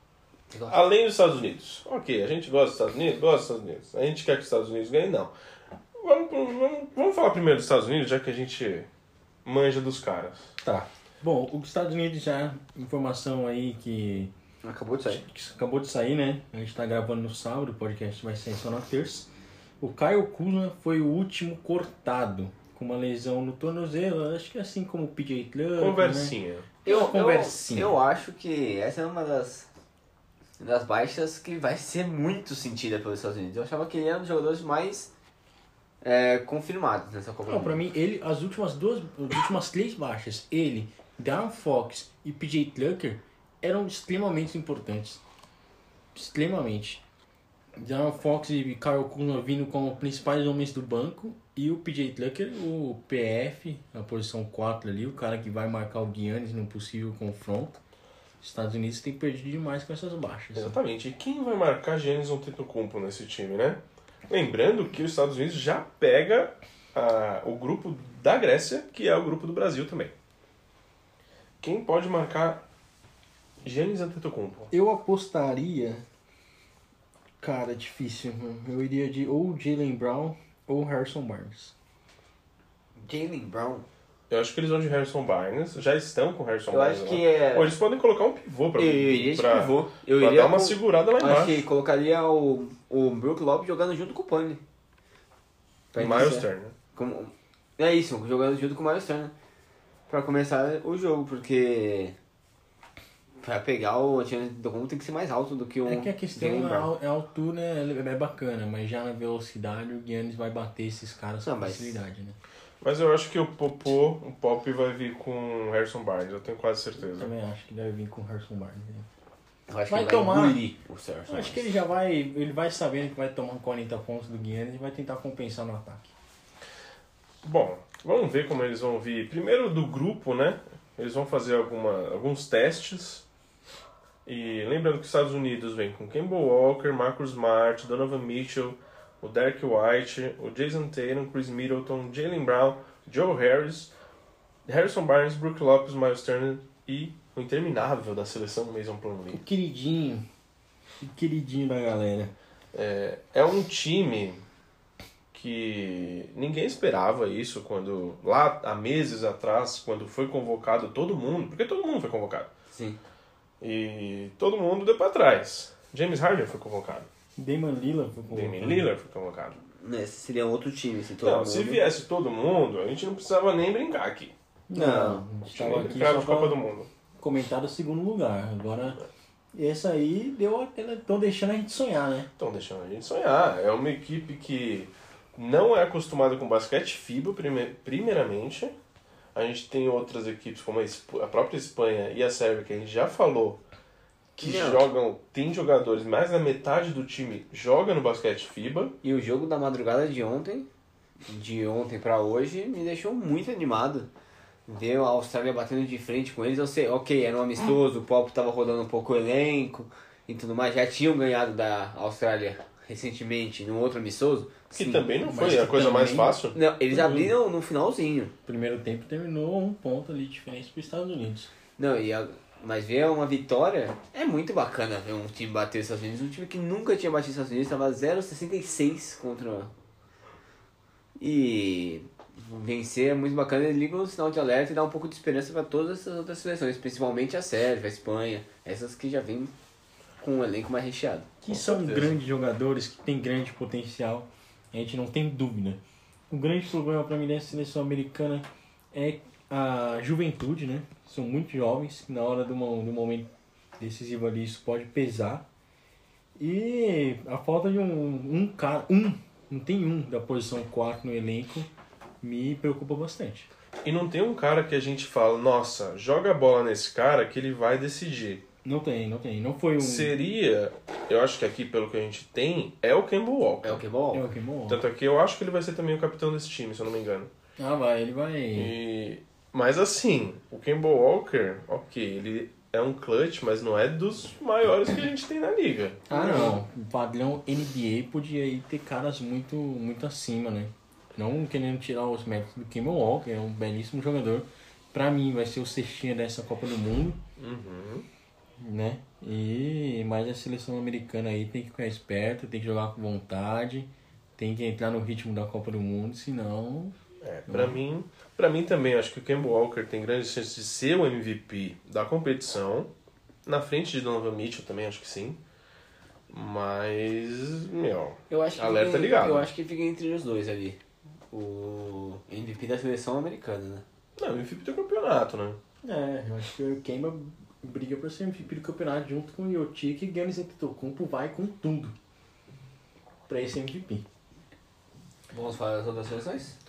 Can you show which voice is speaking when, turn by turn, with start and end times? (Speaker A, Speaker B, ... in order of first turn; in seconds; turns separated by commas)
Speaker A: 0.5-0.8, Speaker B: 0.7-5.3, Speaker B: 6.0-8.9, Speaker B: 9.4-10.5, Speaker C: 10.6-14.3, Speaker A: 14.6-15.2, Speaker C: 15.1-19.3, Speaker C: 19.8-28.0, Speaker B: 25.8-26.7, Speaker A: 26.9-29.7, Speaker A: 30.6-35.1, Speaker A: 36.0-37.8, Speaker C: 37.5-45.2, Speaker C: 46.1-47.0, Speaker C: 47.8-57.8, Speaker C: 58.4-60.8, Speaker B: 60.5-70.1, Speaker B: 71.6-72.6, Speaker B: 73.6-74.7, Speaker C: 74.7-76.0, Speaker C: 77.4-81.7, Speaker A: 83.0-83.9, Speaker B: 84.3-91.6, Speaker A: 86.7-87.7, Speaker A: 88.8-94.6, Speaker A: 95.9-99.3, Speaker B: 96.0-96.8, Speaker A: 100.1-102.1, Speaker A: 103.4-106.9, Speaker C: 105.9-112.4, Speaker A: 111.4-112.0, Speaker B: 112.8-117.3, Speaker C: 117.1-119.1, Speaker A: 119.7-121.7, Speaker C: 119.9-120.6, Speaker C: 121.3-126.1, Speaker B: 127.4-133.3, Speaker B: 134.3-143.9, Speaker B: 144.7-149.4, Speaker C: 149.3-150.3, Speaker C: 151.0-152.3, Speaker B: 152.7-154.4, Speaker B: 155.3-162.5, Speaker A: 162.7-163.0, Speaker B: 163.6-167.1, Speaker C: 167.4-168.9, Speaker B: 168.3-169.6, Speaker A: 169.8-171.8, Speaker B: 171.2-174.3, Speaker C: 174.7-176.6, Speaker A: 174.7-175.2, Speaker B: 175.5-176.9, Speaker C: 177.2-179.0, Speaker C: 179.5-182.3, Speaker B: 182.4-188.8, Speaker B: 189.3-193.6, Speaker B: 194.4-199.0, Speaker A: 194.4-194.8, Speaker A: 199.0-200.7, Speaker A: 201.3-204.1, Speaker A: 204.7-215.1, Speaker B: 214.7-216.6, Speaker C: 215.2-216.4, Speaker A: 216.5-218.3, Speaker C: 216.9-217.3, Speaker C: 218.5-221.5, Speaker A: 221.8-229.7, Speaker A: 231.2-239.5, Speaker A: 240.2-241.4, Speaker C: 241.4-255.4, Speaker B: 241.5-242.2, Speaker C: 256.4-261.7, Speaker C: 262.2-263.5, Speaker B: 263.8-268.4, Speaker C: 268.6-270.1, Speaker B: 269.8-273.8, Speaker A: 273.6-274.3, Speaker C: 274.1-274.8, Speaker B: 274.7-277.3, Speaker C: 277.6-278.7, Speaker B: 278.6-286.6, Speaker C: 286.1-297.2, Speaker B: 297.4-298.1, Speaker C: 298.6-306.9, Speaker B: 307.2-312.9, Speaker C: 307.5-307.8, Speaker B: 313.5-315.4, Speaker B: 316.3-319.5, Speaker A: 318.3-320.8, Speaker A: 321.3-323.9, Speaker B: 324.2-325.6, Speaker C: 325.8-331.9, Speaker C: 333.3-334.1, Speaker A: 335.3-336.6